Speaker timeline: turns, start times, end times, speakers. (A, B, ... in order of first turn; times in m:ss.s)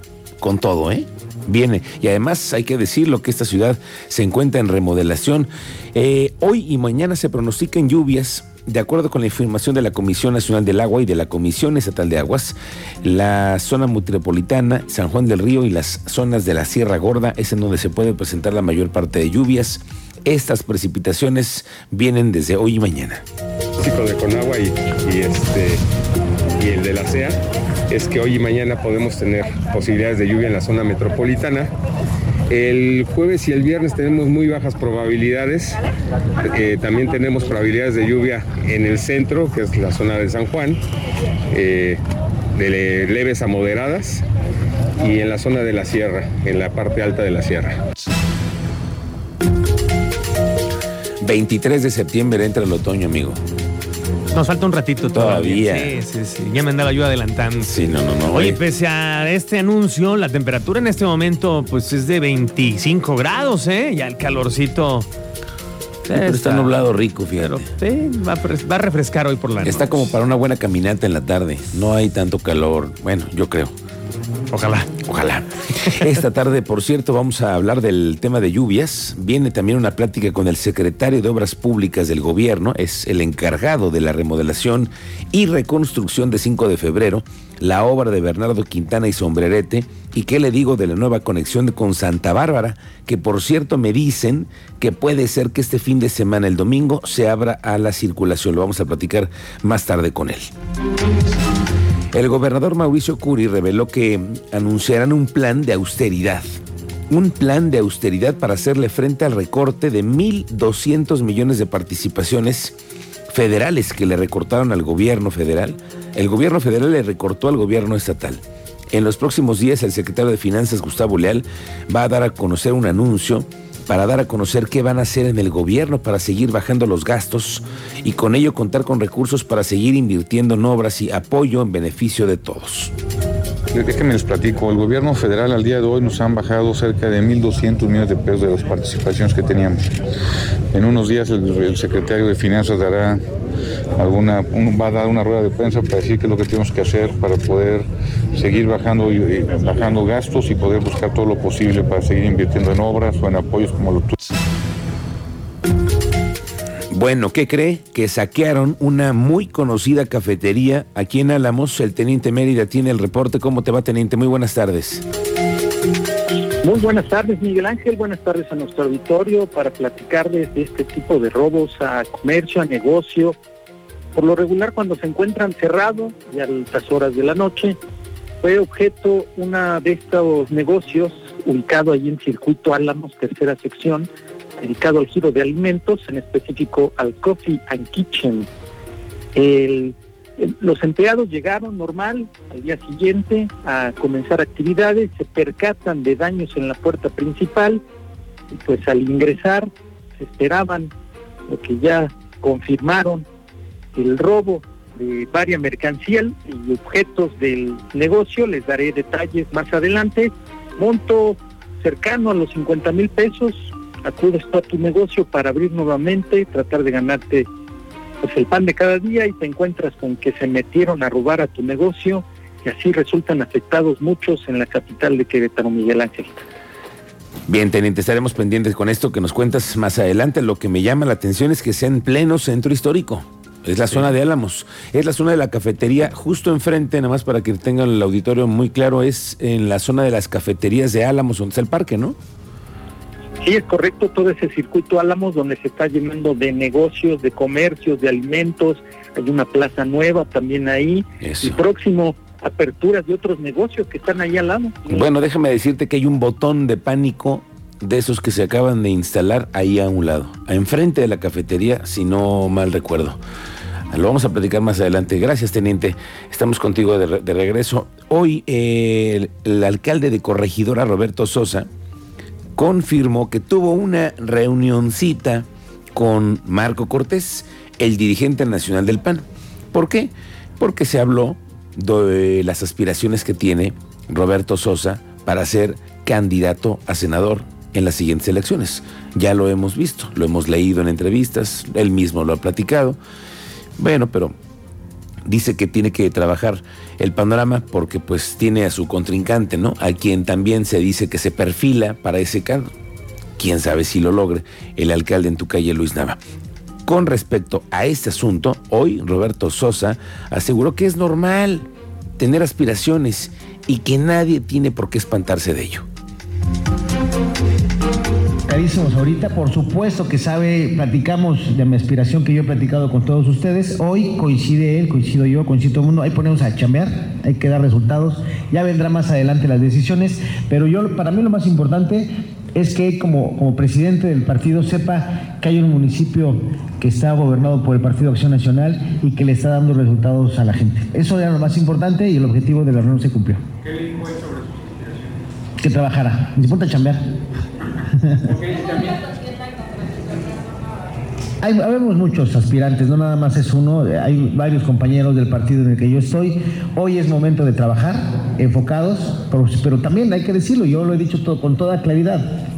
0:00.4-0:23.2 A
0:23.8-0:25.8 B
0:26.6-0:31.7 B
0:32.5-0:35.8 B
0:36.4-0:40.8 B
0:41.5-0:42.0 B
0:42.5-0:44.2 B
0:45.0-0:47.8 B
0:51.2-0:53.4 A
0:54.3-0:57.8 C
0:55.1-0:56.0 A
0:57.7-0:58.6 A
0:58.3-1:05.1 C
1:06.1-1:07.7 A
1:06.1-1:06.7 C
1:07.4-1:10.1 C
1:09.6-1:13.7 A
1:14.5-1:14.9 C
1:15.0-1:40.5 A
1:42.1-1:46.4 A
1:47.1-1:52.8 A
1:53.3-2:12.9 A
2:13.7-2:19.8 D
2:20.7-2:23.2 D
2:24.0-2:34.1 D
2:36.9-2:45.0 A
2:46.6-2:53.4 E
2:54.1-2:57.8 E
2:58.4-3:04.1 E
3:04.6-3:08.5 E
3:09.3-3:17.8 E
3:18.5-3:20.9 E
3:21.5-3:23.2 E
3:23.9-3:37.5 E
3:38.2-3:46.4 E
3:47.5-4:02.2 A
4:03.4-4:15.1 E
4:11.2-4:11.6 A
4:14.9-4:23.2 A
4:23.9-4:31.7 A
4:32.6-4:53.0 A
4:53.8-4:54.4 A
4:55.2-5:02.7 A
5:03.4-5:06.2 A
5:06.9-5:11.7 A
5:12.2-5:15.8 A
5:18.5-5:32.0 F
5:32.6-5:43.3 F
5:45.6-5:47.0 F
5:51.4-6:02.2 F